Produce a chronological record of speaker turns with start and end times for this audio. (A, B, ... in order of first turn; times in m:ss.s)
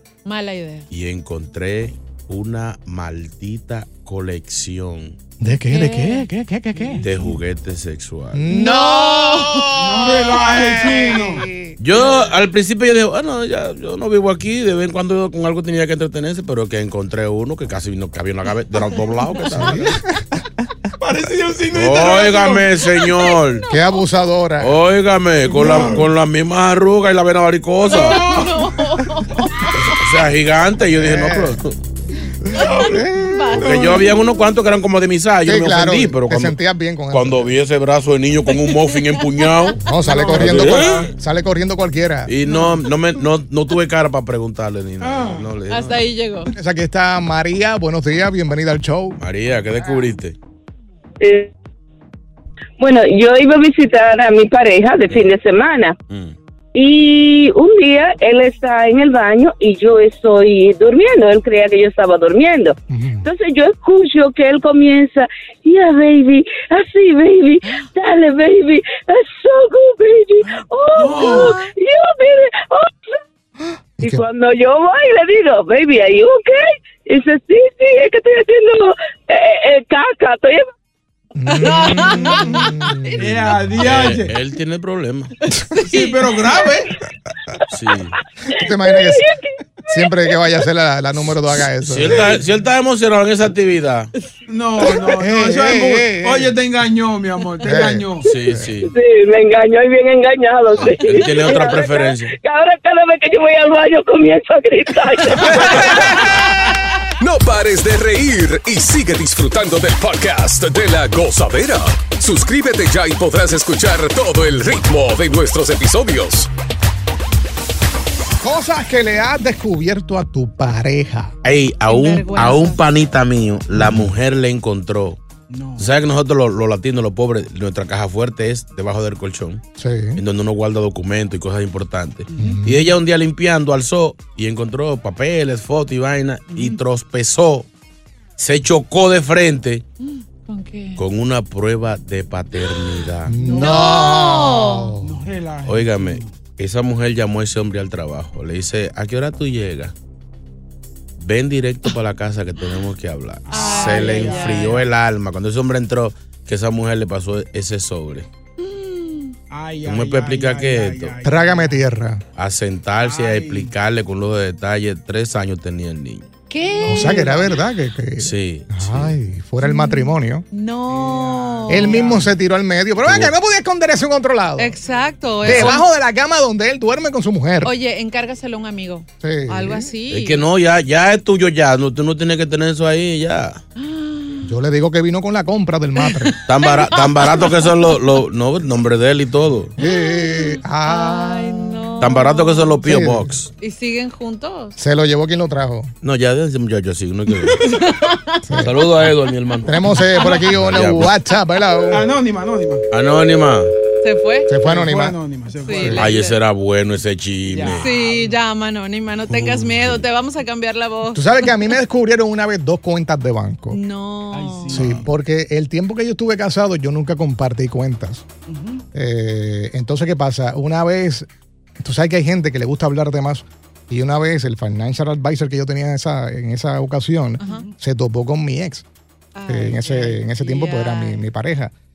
0:00.2-0:00.9 A
0:00.9-0:05.2 B
0:05.4-0:07.1 C
0:05.7-0:06.3 A
0:06.8-0:07.0 D
0:07.0-0:08.5 B
0:08.3-0:11.8 C
0:08.5-0:09.7 A
0:09.8-0:11.5 D
0:11.8-0:19.9 B
0:19.4-0:19.7 A
0:19.4-0:20.4 C
0:21.0-0:22.8 D
0:21.7-0:23.6 B
0:23.0-0:24.0 A
0:23.7-0:24.8 C
0:24.6-0:28.3 B
0:25.6-0:26.1 D
0:27.9-0:30.0 A
0:28.0-0:28.6 D
0:29.9-0:31.8 B
0:30.9-0:31.6 C
0:32.4-0:33.7 C
0:32.5-0:34.5 A
0:32.5-0:33.0 D
0:33.5-0:34.0 D
0:33.6-0:36.6 B
0:35.4-0:37.6 C
0:37.1-0:39.8 B
0:38.5-0:39.7 A
0:39.8-0:42.3 C
0:40.0-0:41.1 D
0:40.4-0:41.0 B
0:42.3-0:46.1 B
0:42.5-0:42.8 D
0:45.0-0:45.5 D
0:45.6-0:46.5 A
0:46.5-0:49.2 C
0:49.2-0:50.4 B
0:51.2-0:51.5 E
0:52.8-0:56.0 E
0:56.1-0:56.4 B
0:56.8-1:13.1 E
1:02.9-1:03.3 C
1:10.5-1:11.6 D
1:11.1-1:11.7 A
1:13.6-1:14.2 C
1:14.0-1:20.7 E
1:21.4-1:23.7 C
1:21.5-1:23.4 A
1:22.2-1:24.3 D
1:23.8-1:25.3 B
1:25.7-1:26.2 A
1:25.8-1:26.9 D
1:27.7-1:28.2 B
1:28.5-1:29.2 C
1:28.5-1:29.4 E
1:29.9-1:32.4 C
1:31.8-1:34.1 B
1:32.0-1:32.4 D
1:34.5-1:38.3 D
1:35.2-1:36.5 C
1:37.6-1:38.7 C
1:38.2-1:38.9 B
1:38.9-1:46.2 E
1:40.8-1:42.3 B
1:47.2-1:56.5 F
1:58.4-2:01.3 C
2:01.4-2:05.2 B
2:01.8-2:02.8 A
2:03.7-2:04.1 C
2:05.5-2:05.9 D
2:05.8-2:09.6 B
2:09.8-2:10.2 C
2:10.2-2:17.7 B
2:12.3-2:12.7 D
2:12.4-2:12.9 C
2:16.5-2:16.8 D
2:18.4-2:19.8 B
2:20.0-2:21.0 A
2:21.0-2:23.4 B
2:23.3-2:25.2 C
2:23.4-2:25.0 A
2:23.4-2:23.7 D
2:25.0-2:26.4 D
2:25.7-2:29.9 B
2:31.2-2:38.3 B
2:33.5-2:34.7 D
2:33.5-2:34.8 A
2:38.6-2:41.8 D
2:39.8-2:41.2 B
2:41.2-2:42.2 C
2:42.4-2:46.3 B
2:43.0-2:43.7 D
2:46.5-2:47.4 A
2:46.7-2:47.6 D
2:46.9-2:50.4 C
2:48.2-2:49.2 B
2:49.6-2:52.3 A
2:50.9-2:52.3 D
2:51.7-2:54.8 C
2:53.0-2:53.3 B
2:54.6-2:55.8 A
2:54.9-2:55.2 D
2:55.4-2:57.7 C
2:55.4-2:55.8 B
2:57.6-3:00.4 A
2:59.2-2:59.9 C
3:00.1-3:03.6 B
3:03.8-3:04.5 A
3:04.5-3:06.4 C
3:06.0-3:08.0 A
3:06.5-3:09.7 B
3:09.8-3:12.1 C
3:09.8-3:12.8 A
3:12.0-3:13.5 B
3:12.8-3:13.4 C
3:13.6-3:14.8 A
3:14.8-3:15.9 C
3:16.0-3:17.6 B
3:17.6-3:18.7 A
3:18.5-3:18.8 C
3:18.6-3:19.7 B
3:19.6-3:22.1 C
3:20.2-3:20.6 A
3:20.5-3:21.1 B
3:21.9-3:22.8 D
3:22.9-3:23.7 B
3:24.0-3:24.6 A
3:24.5-3:25.2 C
3:24.6-3:26.1 D
3:25.6-3:26.4 A
3:25.8-3:26.0 C
3:25.9-3:27.9 B
3:27.5-3:28.4 D
3:27.7-3:31.6 A
3:29.3-3:30.0 B
3:31.1-3:33.8 C
3:33.7-3:35.0 A
3:34.3-3:35.0 D
3:34.7-3:38.3 C
3:38.5-3:38.8 D
3:38.9-3:48.8 C
3:47.4-3:47.7 A
3:47.4-3:47.7 D
3:49.4-3:51.3 A
3:49.5-3:51.7 C